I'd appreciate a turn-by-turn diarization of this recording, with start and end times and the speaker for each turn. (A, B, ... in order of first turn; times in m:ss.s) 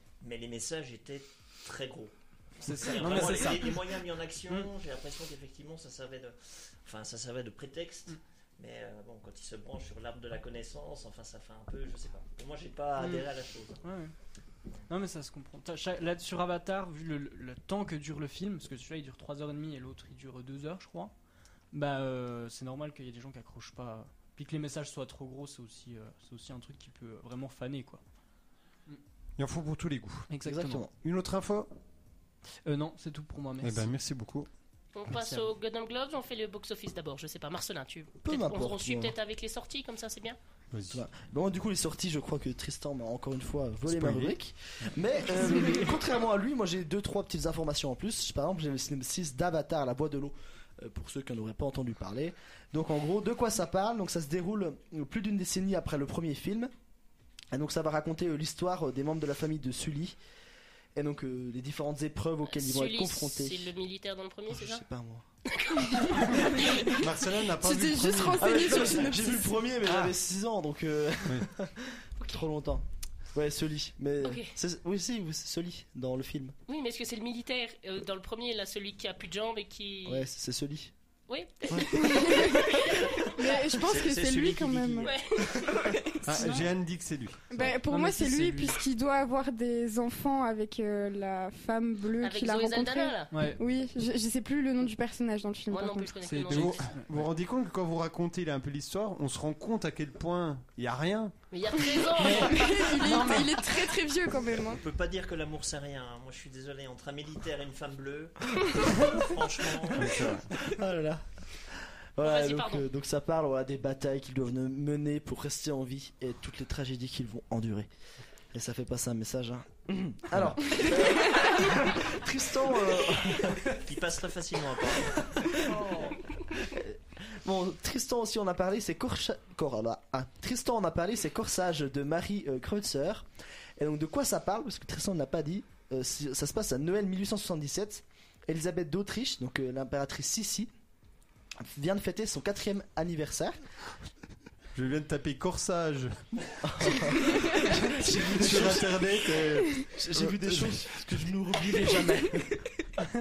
0:00.2-0:13.8 A
0:02.6-0:03.8 B
0:13.0-0:13.3 B
0:13.8-0:14.1 B
0:14.9-0:21.1 B
0:21.7-0:28.0 B
0:29.4-0:30.3 C
0:30.3-0:30.8 B
0:30.4-0:30.9 D
0:31.0-0:31.7 C
0:32.7-0:33.9 B
0:33.6-0:34.5 C
0:35.0-0:40.4 E
0:35.1-0:35.4 B
0:38.2-0:39.2 D
0:40.7-0:41.0 C
0:40.9-0:56.7 D
0:43.9-0:44.4 C
0:57.5-1:00.2 D
1:01.0-1:03.8 D
1:02.5-1:04.8 E
1:04.5-1:05.3 D
1:05.5-1:06.9 E
1:06.9-1:08.9 C
1:07.6-1:09.5 F
1:08.4-1:16.6 D
1:12.2-1:12.4 E
1:14.2-1:14.5 E
1:16.7-1:20.3 E
1:20.1-1:20.9 D
1:21.3-1:23.6 E
1:21.7-1:23.0 D
1:21.8-1:25.1 F
1:23.6-1:25.2 A
1:25.0-1:26.0 E
1:26.2-1:27.4 C
1:27.5-1:36.2 F
1:27.6-1:28.8 B
1:32.2-1:33.3 E
1:33.3-1:33.6 B
1:35.7-1:36.9 E
1:36.2-1:37.3 B
1:36.5-1:41.3 C
1:41.5-1:42.9 E
1:42.2-1:43.5 B
1:42.2-1:44.8 F
1:44.7-1:50.4 A
1:50.0-1:50.5 C
1:50.6-1:57.9 D
1:52.2-1:52.8 E
1:58.5-2:03.8 D
2:00.4-2:00.6 C
2:03.8-2:05.6 A
2:05.7-2:20.7 D
2:21.6-2:23.6 D
2:24.8-2:26.2 C
2:26.6-2:29.2 D
2:27.8-2:31.0 C
2:29.8-2:32.9 D